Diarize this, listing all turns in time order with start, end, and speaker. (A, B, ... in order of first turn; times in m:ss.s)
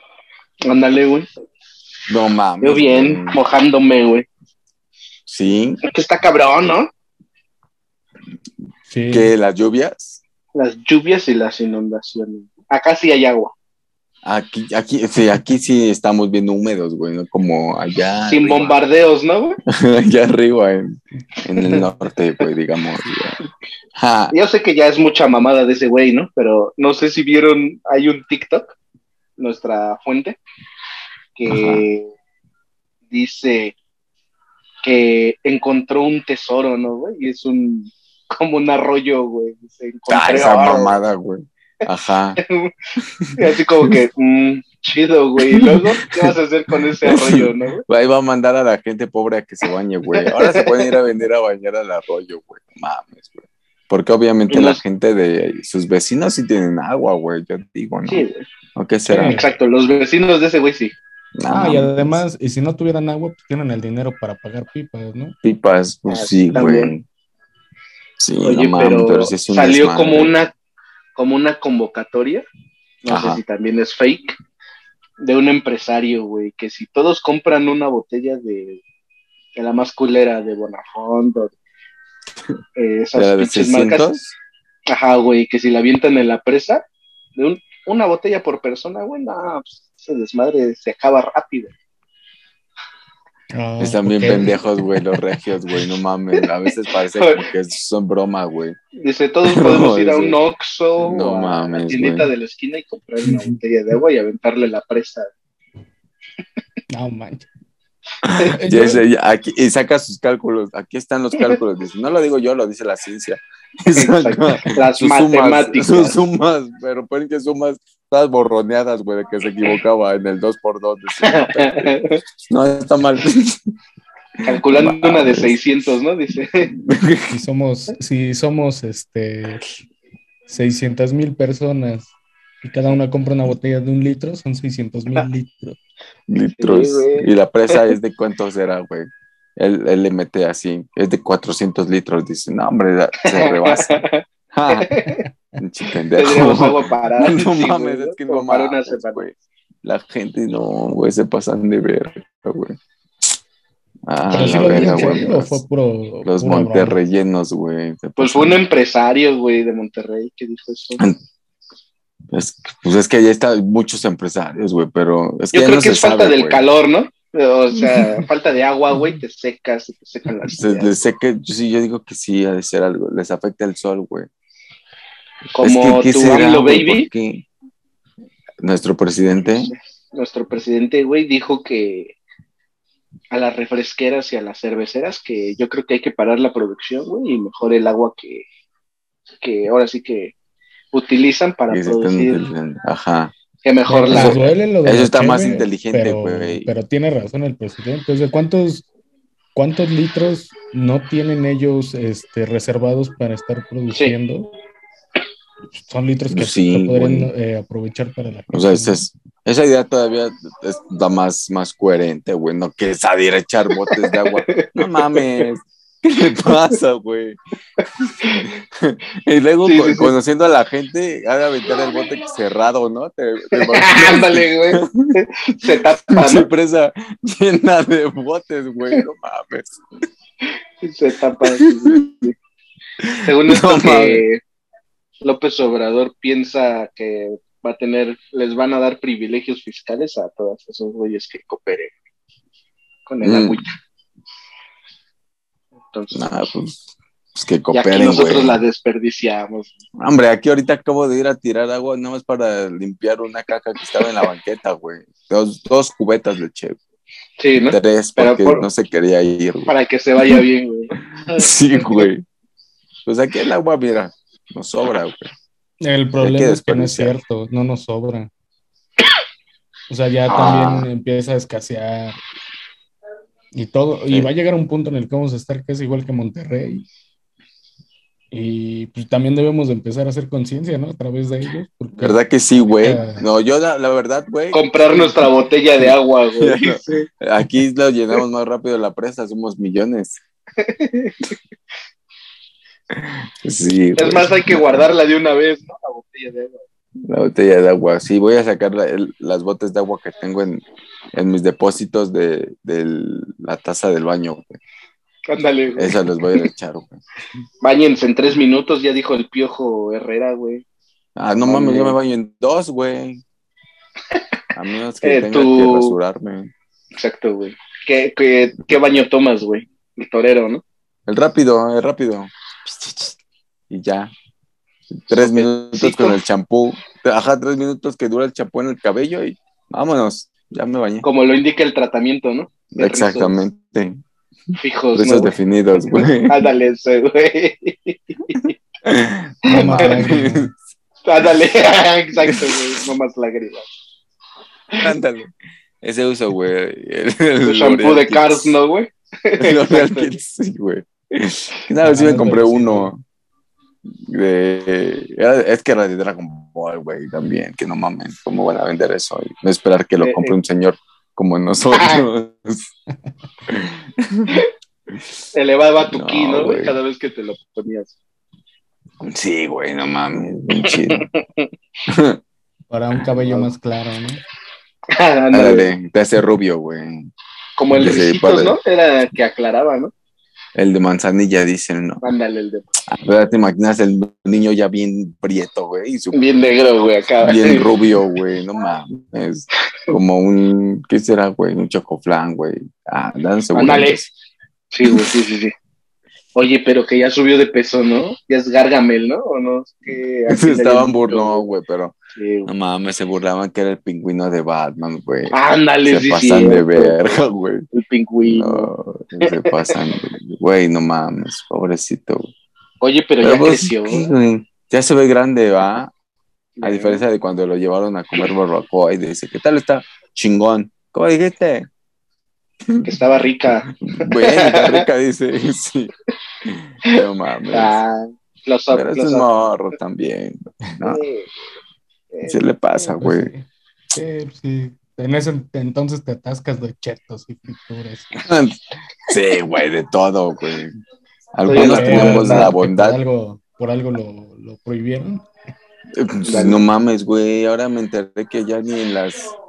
0:00.6-0:01.3 A
0:02.1-0:03.4 B
0:02.6-0:04.3 A
0:05.3-0:05.8 B
0:05.9-0:06.9 A
0:08.9-0:09.3 C
0:09.1-0:10.2 B
0:10.5-0:13.5 A
0:14.2-0:18.8 B
0:18.3-0:19.6 A
0:19.7-0:23.4 B
0:24.0-0:24.3 B
0:24.3-0:28.7 A
0:29.4-0:30.4 A
0:31.4-0:32.1 A
0:31.4-0:31.8 B
0:33.1-0:33.7 A
0:34.8-0:41.0 A
0:40.1-0:42.4 B
0:42.4-0:42.7 A
0:43.0-0:44.0 B
0:43.4-0:47.8 A
0:45.5-0:46.3 B
0:47.0-0:58.2 B
0:50.2-0:50.8 A
0:54.5-0:54.8 A
0:58.0-0:58.4 A
0:58.8-0:59.4 B
0:59.1-0:59.5 C
0:59.1-1:01.0 A
1:01.4-1:02.2 B
1:01.5-1:05.4 C
1:05.4-1:07.0 B
1:06.1-1:06.9 A
1:08.2-1:10.3 B
1:08.4-1:10.5 A
1:11.1-1:12.4 A
1:13.0-1:14.4 A
1:13.1-1:13.4 B
1:15.2-1:18.8 A
1:19.6-1:21.5 A
1:22.8-1:24.0 A
1:23.1-1:24.3 B
1:24.9-1:26.8 A
1:27.4-1:31.7 A
1:33.5-1:35.2 C
1:33.8-1:38.8 B
1:37.1-1:37.4 A
1:39.0-1:45.3 A
1:39.4-1:40.4 B
1:41.0-1:42.3 B
1:43.2-1:43.6 C
1:46.9-1:47.5 C
1:48.2-2:01.9 B
1:48.4-1:49.0 C
1:53.9-1:56.2 A
2:01.2-2:02.2 A
2:02.4-2:03.7 B
2:04.4-2:06.7 A
2:04.6-2:05.6 B
2:06.8-2:07.3 B
2:07.3-2:09.6 C
2:10.5-2:15.8 C
2:16.3-2:24.0 B
2:16.6-2:17.3 A
2:23.3-2:25.2 A
2:24.5-2:24.9 B
2:25.6-2:32.8 B
2:26.2-2:29.2 A
2:34.1-2:35.6 B
2:34.3-2:37.0 C
2:34.3-2:35.2 A
2:36.2-2:38.6 B
2:38.2-2:41.0 A
2:42.3-2:46.6 B
2:45.5-2:51.0 A
2:47.8-2:48.2 B
2:50.6-2:54.3 B
2:55.5-2:57.1 A
2:55.6-2:57.4 B
2:58.6-2:59.7 B
2:59.5-3:02.1 A
3:03.3-3:08.4 A
3:09.4-3:10.3 A
3:10.9-3:12.4 A
3:11.7-3:13.3 B
3:13.6-3:14.5 A
3:13.9-3:18.9 C
3:14.1-3:16.7 B
3:19.5-3:24.6 C
3:25.8-3:29.0 C
3:26.3-3:27.3 B
3:28.5-3:37.4 B
3:33.9-3:35.4 A
3:38.0-3:45.2 B
3:39.6-3:40.1 A
3:43.6-3:46.5 A
3:46.1-3:49.8 B
3:50.8-3:52.3 A
3:51.4-3:52.1 B
3:53.0-3:54.2 B
3:53.2-3:54.4 A
3:55.2-4:01.9 A
4:03.1-4:03.7 A
4:03.2-4:03.6 B
4:05.9-4:06.3 A
4:06.1-4:08.6 B
4:07.7-4:09.8 A
4:10.0-4:16.8 B
4:17.4-4:18.6 A
4:17.7-4:19.7 B
4:19.7-4:22.1 A
4:21.4-4:22.2 B
4:23.0-4:25.3 B
4:25.8-4:28.3 C
4:26.2-4:27.1 B
4:29.9-4:32.2 C
4:30.3-4:30.9 B
4:33.5-4:36.8 C
4:38.3-4:43.2 C
4:42.0-4:45.2 B
4:44.5-4:47.1 A
4:45.8-4:50.2 B
4:50.6-4:51.3 A
4:52.9-4:54.8 B
4:54.0-4:56.6 A
4:57.0-5:04.6 B
5:05.3-5:06.4 A
5:05.8-5:07.0 B
5:07.6-5:10.6 A
5:11.2-5:13.2 B
5:11.4-5:12.0 A
5:14.5-5:16.5 B
5:15.0-5:16.0 A
5:17.0-5:20.6 A
5:21.1-5:23.1 B
5:23.7-5:24.1 B
5:24.9-5:31.0 B
5:25.1-5:26.2 A
5:31.0-5:33.4 A
5:32.8-5:34.0 B
5:34.6-5:35.3 A
5:34.9-5:36.4 B
5:35.9-5:38.5 A
5:38.3-5:40.5 B
5:39.5-5:40.5 C
5:39.6-5:40.0 A
5:41.0-5:43.7 A
5:42.2-5:42.6 B
5:44.8-5:48.6 B
5:47.4-5:50.1 A
5:49.4-5:53.0 B
5:51.8-5:52.9 C
5:53.9-6:02.7 B
6:00.0-6:00.3 A
6:03.5-6:05.0 B
6:05.3-6:07.9 A
6:05.9-6:06.8 B
6:09.0-6:11.1 B
6:10.9-6:11.5 A
6:11.9-6:12.2 B
6:12.7-6:14.2 C
6:13.2-6:13.5 A
6:14.9-6:15.7 A
6:15.3-6:17.1 B
6:17.6-6:19.9 A
6:17.7-6:18.6 B
6:20.6-6:22.0 B
6:22.0-6:22.6 A
6:22.8-6:26.2 B
6:26.1-6:27.8 A
6:27.2-6:34.1 B
6:33.5-6:34.0 A
6:34.7-6:35.5 A
6:34.8-6:35.1 B
6:36.3-6:41.5 A
6:40.3-6:41.9 B
6:42.1-6:42.5 A
6:42.5-6:47.6 B
6:45.3-6:47.1 A
6:47.7-6:48.7 A
6:48.2-6:52.3 B
6:49.2-6:49.5 A
6:52.8-6:54.1 A
6:53.2-6:55.9 B
6:56.6-6:57.0 A
6:56.6-7:01.7 B
7:02.6-7:02.9 B
7:02.8-7:04.8 A
7:03.7-7:05.9 B
7:06.4-7:07.8 B
7:07.5-7:09.4 A
7:08.7-7:11.0 B
7:10.8-7:11.3 A
7:12.1-7:12.4 A
7:12.2-7:13.3 B
7:13.0-7:18.1 C
7:18.2-7:20.8 B
7:21.3-7:23.0 B
7:21.4-7:22.5 A
7:21.5-7:25.3 C
7:25.9-7:29.3 B
7:26.2-7:26.6 A